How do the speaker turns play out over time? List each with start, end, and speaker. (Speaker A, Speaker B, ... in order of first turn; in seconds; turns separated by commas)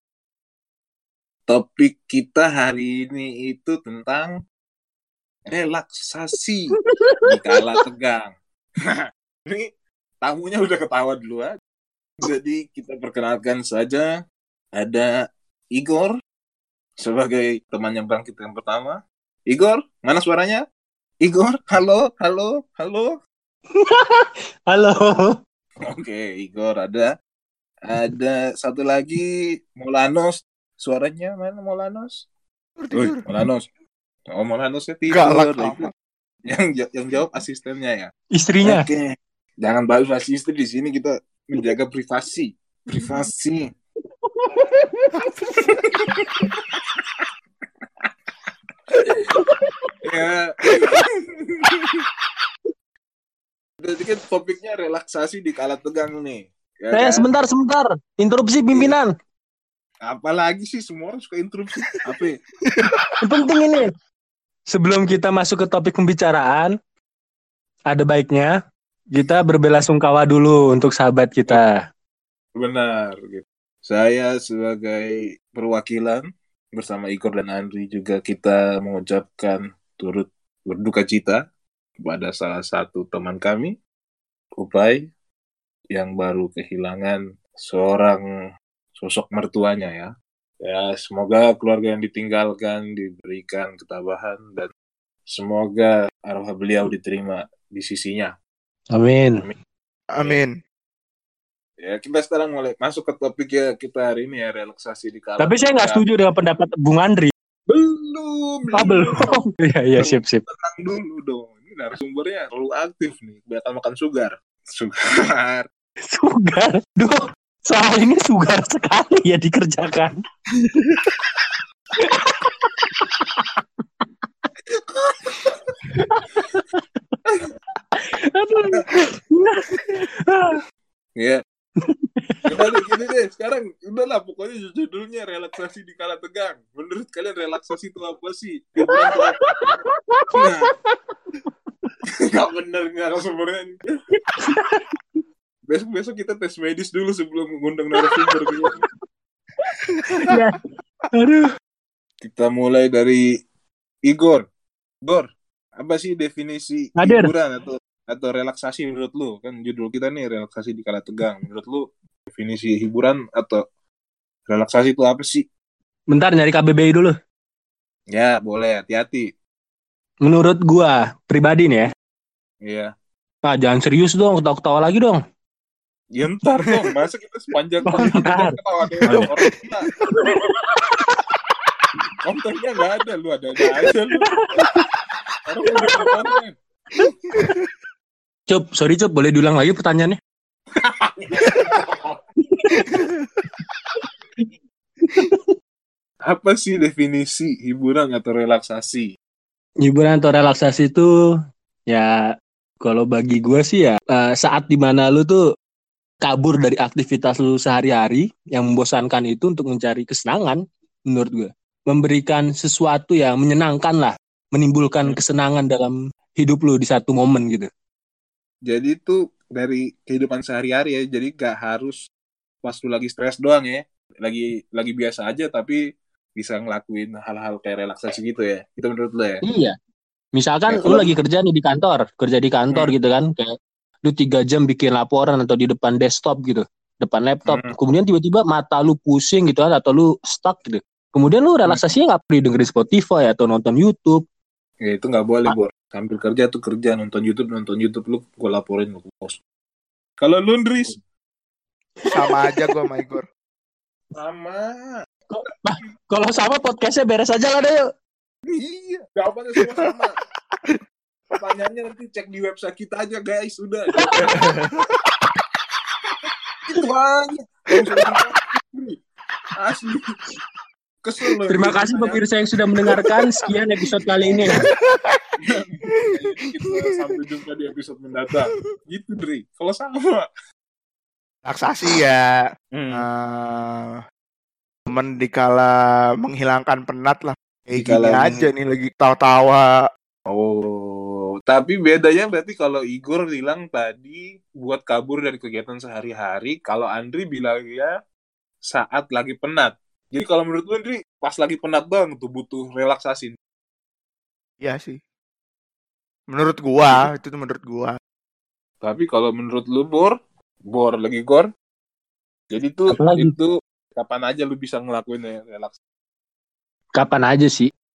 Speaker A: 1.5-4.3, Speaker A: 5.5-8.3, Speaker B: 6.8-7.8, Speaker A: 8.8-9.7, Speaker A: 10.2-11.6, Speaker A: 12.2-14.1, Speaker A: 14.8-15.1, Speaker A: 15.7-16.1, Speaker A: 17.0-20.6, Speaker A: 21.2-23.2, Speaker B: 23.8-25.4, Speaker A: 25.9-27.1, Speaker A: 27.8-32.2, Speaker C: 32.8-33.2, Speaker A: 32.9-33.6, Speaker A: 34.3-35.9, Speaker C: 35.1-35.9, Speaker A: 36.5-38.1, Speaker B: 38.3-38.9, Speaker A: 38.6-43.7, Speaker B: 44.4-45.8, Speaker C: 45.1-45.9, Speaker A: 45.7-46.3, Speaker B: 49.3-49.7, Speaker A: 50.0-52.0, Speaker C: 50.7-51.0, Speaker A: 53.8-57.3, Speaker B: 56.9-59.1, Speaker A: 60.1-62.4, Speaker C: 62.6-63.2, Speaker B: 63.2-63.9, Speaker B: 64.7-66.7, Speaker B: 67.9-68.5, Speaker B: 69.1-71.8, Speaker A: 72.5-81.4, Speaker A: 82.0-83.7, Speaker A: 84.6-85.0, Speaker A: 85.9-88.2, Speaker A: 89.0-94.7, Speaker A: 95.3-98.3, Speaker B: 98.9-99.4, Speaker C: 100.1-100.6, Speaker A: 101.8-106.0, Speaker B: 105.4-107.3, Speaker A: 107.7-109.3, Speaker B: 108.7-110.4, Speaker A: 110.0-115.7, Speaker B: 116.1-120.1, Speaker C: 120.6-121.1, Speaker B: 122.0-123.6, Speaker A: 124.9-125.5, Speaker B: 125.4-127.2, Speaker B: 128.0-130.6, Speaker B: 131.8-132.7, Speaker A: 132.5-139.4, Speaker B: 138.8-140.9, Speaker A: 140.3-140.7, Speaker A: 142.1-143.8, Speaker B: 144.3-145.0, Speaker A: 145.7-148.8, Speaker B: 147.9-148.8, Speaker C: 149.9-150.4, Speaker B: 150.2-151.5, Speaker A: 152.2-153.2, Speaker A: 154.1-154.4, Speaker A: 155.0-163.6, Speaker B: 157.0-157.3, Speaker A: 164.5-165.4, Speaker B: 166.1-167.1, Speaker A: 168.1-169.3, Speaker B: 170.2-171.9, Speaker A: 172.6-172.9, Speaker B: 173.5-175.2, Speaker A: 176.2-179.9, Speaker B: 177.9-179.3, Speaker B: 180.1-181.1, Speaker A: 182.2-184.3, Speaker B: 184.2-184.8, Speaker A: 185.4-186.6, Speaker C: 185.7-186.0, Speaker C: 187.0-187.7, Speaker B: 188.5-190.2, Speaker A: 190.8-192.2, Speaker B: 192.5-193.1, Speaker C: 192.9-193.4, Speaker B: 195.0-195.5, Speaker A: 196.3-199.1, Speaker B: 199.8-201.1, Speaker B: 201.9-202.2, Speaker B: 202.8-205.4, Speaker B: 206.2-217.7, Speaker A: 218.7-222.0, Speaker A: 222.6-225.8, Speaker A: 226.4-229.4, Speaker B: 229.4-229.7, Speaker B: 230.4-233.5, Speaker A: 230.7-231.1, Speaker B: 234.1-244.2, Speaker A: 237.5-237.7, Speaker A: 244.8-249.4, Speaker A: 250.2-251.0, Speaker B: 252.1-252.5, Speaker C: 252.1-253.2, Speaker A: 254.1-254.9, Speaker B: 255.3-257.9, Speaker A: 258.5-260.1, Speaker C: 259.6-259.9, Speaker A: 261.3-264.4, Speaker B: 264.0-264.4, Speaker C: 264.2-265.1, Speaker A: 266.7-269.0, Speaker C: 267.7-268.2, Speaker A: 269.5-270.1, Speaker A: 271.0-272.2, Speaker B: 271.5-274.6, Speaker C: 272.9-273.2, Speaker C: 274.3-275.2, Speaker A: 275.4-280.2, Speaker C: 281.5-284.0, Speaker A: 282.7-283.0, Speaker C: 284.9-289.7, Speaker A: 287.8-288.5, Speaker A: 290.3-297.9, Speaker A: 298.7-303.4, Speaker C: 304.6-305.0, Speaker C: 306.3-307.9, Speaker A: 308.8-310.1, Speaker A: 310.7-311.5, Speaker A: 312.5-315.7, Speaker B: 312.9-313.3, Speaker B: 317.0-317.7